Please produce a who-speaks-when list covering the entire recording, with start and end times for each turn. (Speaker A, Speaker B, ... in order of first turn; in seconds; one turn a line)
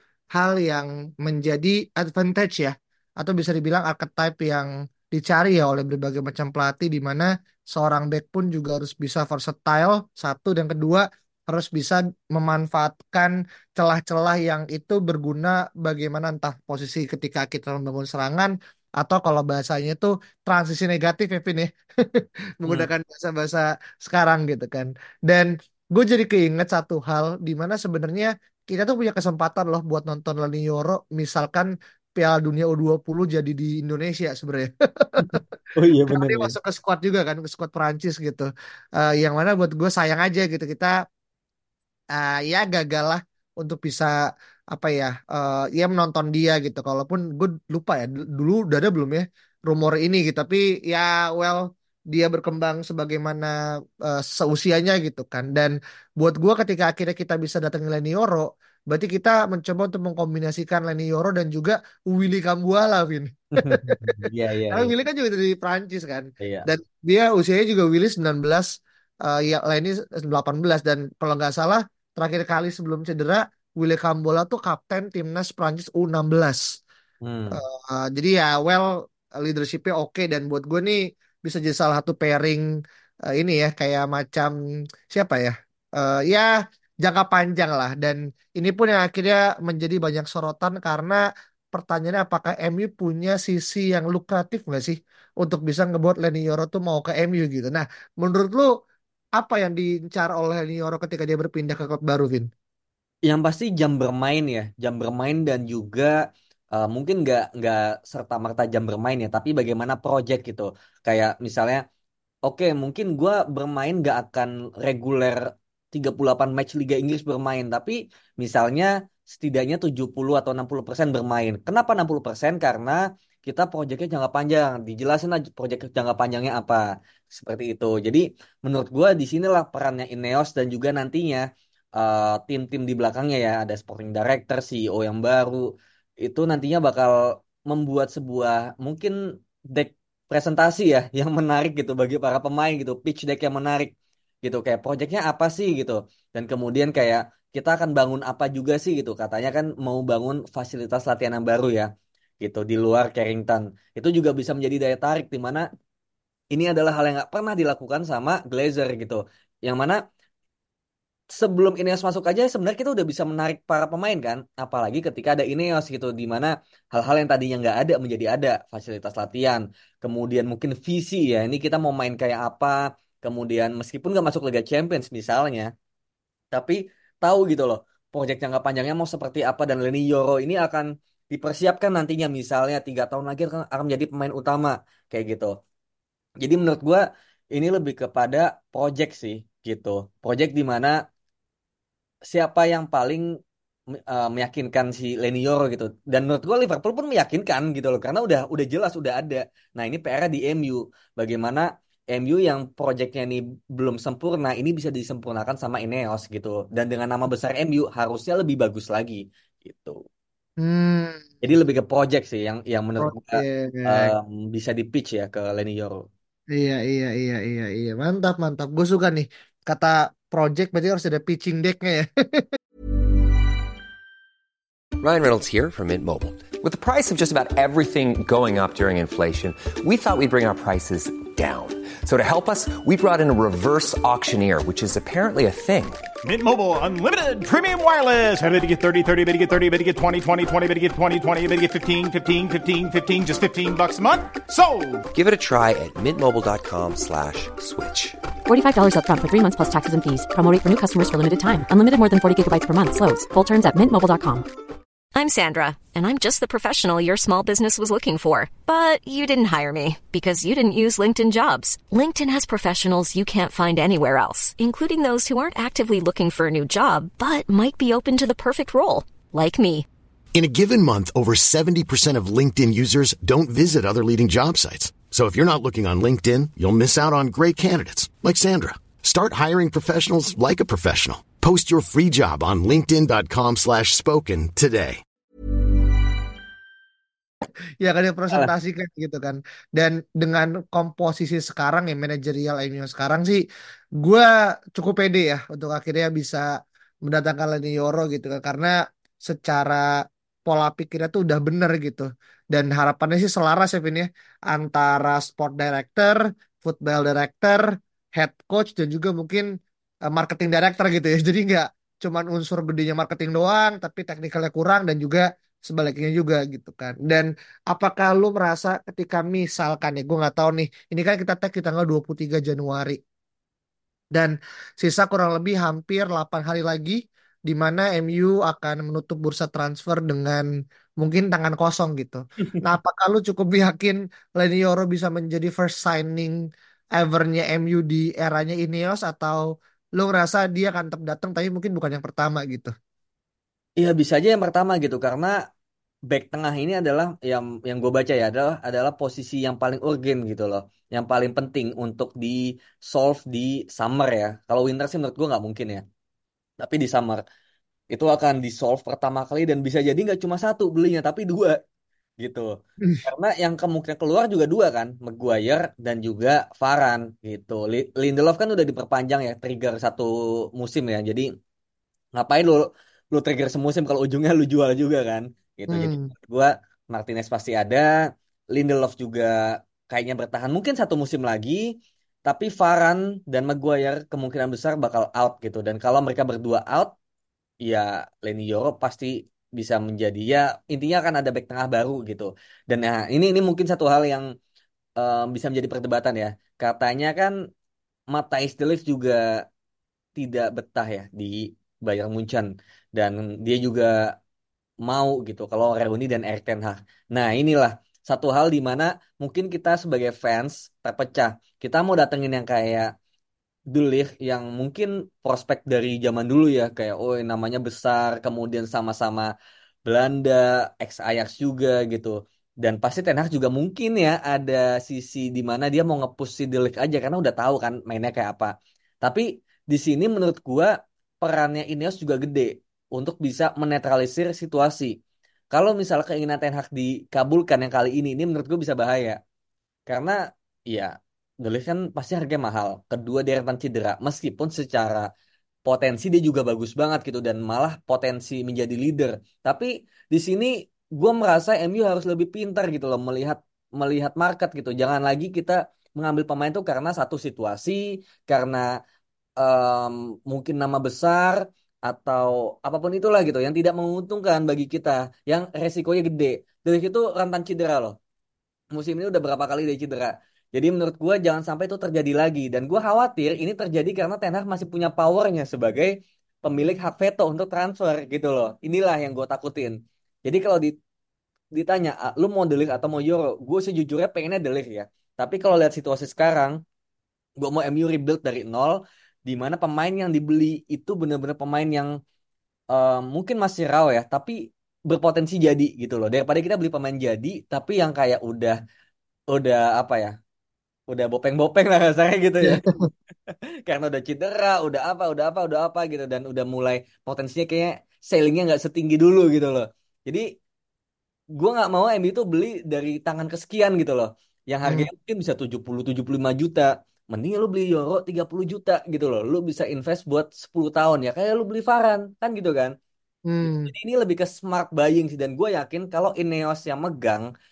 Speaker A: 0.3-35.5
Speaker B: 35.2-36.5
Speaker A: 36.1-40.9
Speaker A: 42.1-44.1
Speaker A: 44.7-64.2
Speaker B: 63.6-64.9
Speaker A: 64.7-68.7
Speaker B: 66.4-66.7
Speaker A: 69.2-76.8
Speaker B: 77.2-77.6
Speaker A: 77.5-82.6
Speaker A: 83.3-84.5
Speaker A: 85.1-86.5
Speaker A: 87.0-91.2
Speaker A: 91.7-98.7
Speaker A: 99.4-102.5
Speaker B: 103.3-106.2
Speaker B: 106.7-111.8
Speaker B: 112.5-131.4
Speaker B: 132.0-135.7
Speaker B: 136.2-137.1
Speaker B: 137.7-139.2
Speaker B: 139.7-143.9
Speaker B: 144.4-151.9
Speaker B: 152.4-155.7
Speaker B: 156.5-160.0
Speaker B: 161.3-175.7
Speaker B: 176.5-185.5
Speaker B: 186.4-187.0
Speaker B: 187.5-191.0
Speaker B: 192.3-193.2
Speaker B: 193.9-210.0
Speaker A: 210.6-211.3
Speaker B: 211.4-216.0
Speaker A: 213.0-214.1
Speaker A: 216.5-222.5
Speaker C: 225.0-236.1
Speaker D: 236.2-245.0
Speaker C: 245.1-248.2
Speaker E: 248.5-254.4
Speaker F: 255.2-269.9
Speaker G: 270.3-285.0
Speaker A: 287.8-293.4
Speaker A: 294.0-296.4
Speaker A: 297.1-299.8
Speaker A: 300.5-309.5
Speaker A: 310.1-323.0
Speaker A: 324.1-330.4
Speaker A: 331.0-336.4
Speaker A: 336.9-339.4
Speaker A: 340.0-342.7
Speaker B: 343.8-345.3
Speaker B: 346.1-355.8
Speaker B: 356.6-357.2
Speaker B: 357.9-361.6
Speaker B: 362.2-362.5
Speaker B: 363.1-371.3
Speaker B: 372.2-377.9
Speaker A: 375.7-376.1
Speaker B: 378.5-379.4
Speaker B: 379.9-381.6
Speaker B: 382.3-386.9
Speaker B: 387.6-394.2
Speaker B: 395.0-397.3
Speaker B: 398.1-399.2
Speaker B: 400.2-403.9
Speaker B: 404.9-412.9
Speaker B: 413.7-419.3
Speaker B: 419.9-430.7
Speaker B: 431.2-434.9
Speaker B: 435.5-439.2
Speaker B: 439.9-440.2
Speaker B: 440.7-445.1
Speaker B: 445.7-458.7
Speaker B: 459.4-468.0
Speaker B: 468.7-475.9
Speaker B: 476.4-480.7
Speaker B: 481.5-486.6
Speaker B: 487.4-491.9
Speaker B: 492.7-494.4
Speaker B: 494.9-498.6
Speaker B: 499.3-500.1
Speaker B: 500.9-502.6
Speaker B: 503.7-510.2
Speaker B: 511.4-522.7
Speaker A: 523.3-523.7
Speaker B: 523.5-527.3